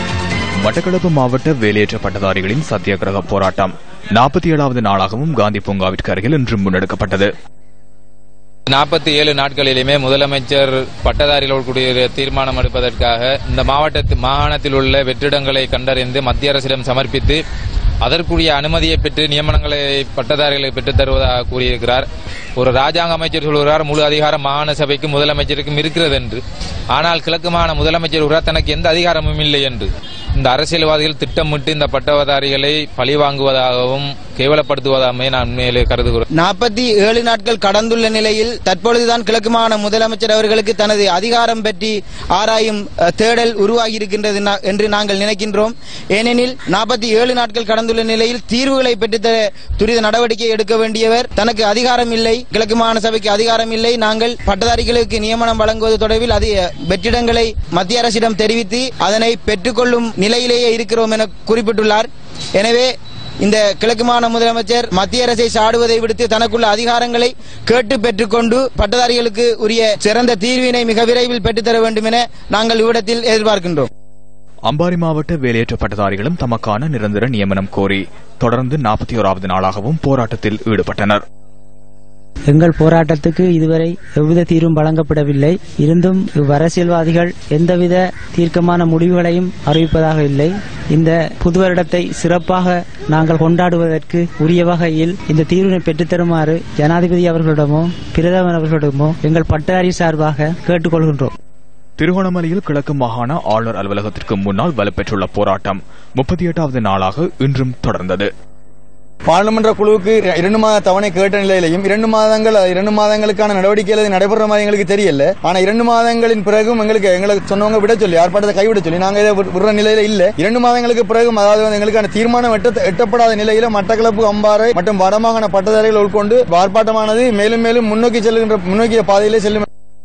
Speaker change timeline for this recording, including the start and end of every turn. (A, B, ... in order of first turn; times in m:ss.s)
0:00.6-0:07.3 A
0:08.7-0:17.4 B
0:18.0-0:22.1 B
0:22.6-0:26.4 B
0:26.9-0:36.2 B
0:36.4-1:02.9 C
1:03.4-1:13.9 C
1:14.7-1:21.2 A
1:22.5-1:41.3 D
1:42.0-1:48.3 A
1:49.3-2:09.7 E